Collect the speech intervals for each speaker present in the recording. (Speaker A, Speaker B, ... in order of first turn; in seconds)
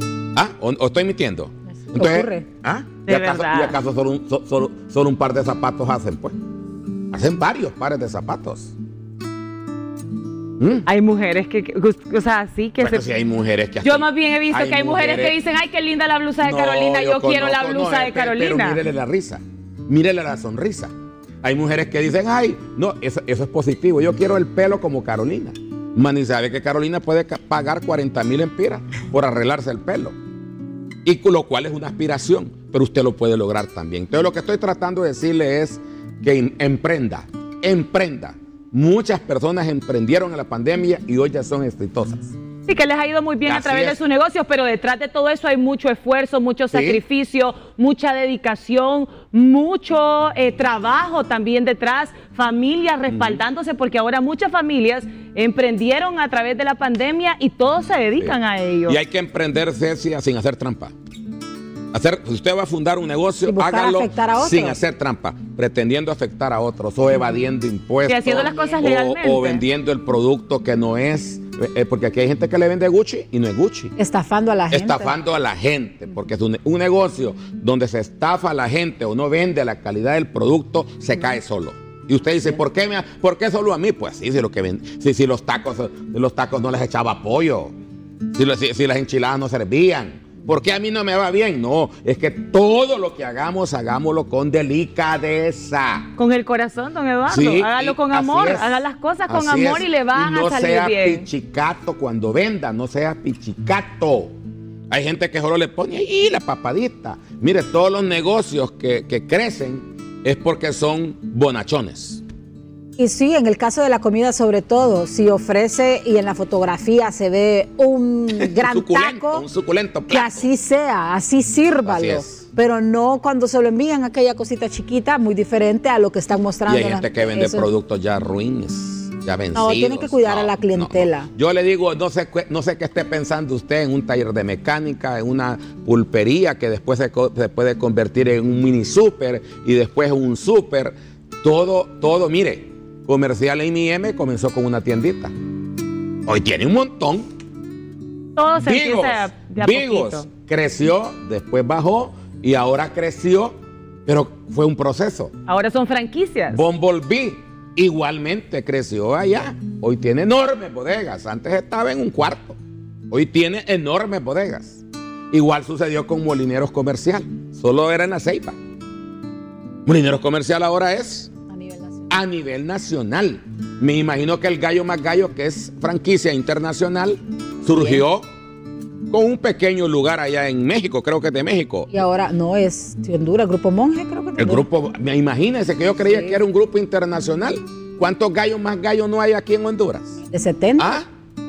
Speaker A: 0.3-6.4, 7.1-8.7, 10.6-10.9, 12.8-15.4, 16.4-30.1, 31.1-42.3, 43.5-44.0, 46.7-47.0, 53.1-53.4, 58.9-60.9, 61.9-74.0, 74.7-87.7, 88.3-96.1, 97.3-104.3, 104.9-112.2, 118.4-120.5, 121.9-122.5, 126.7-145.3, 146.3-147.3, 148.6-155.3, 156.5-162.6, 163.1-168.6, 169.9-171.3, 172.1-178.2, 179.1-181.9, 184.4-190.2, 190.8-191.1
Speaker B: 1.9-2.5, 63.5-64.8, 74.0-75.2, 113.0-119.5, 120.1-127.7, 129.5-131.3, 171.5-172.1, 181.9-184.7, 190.3-191.0
Speaker C: 3.1-3.8, 10.9-13.1, 13.8-18.8, 42.7-59.0, 68.1-69.6, 96.2-101.3, 148.4-150.3, 155.5-156.6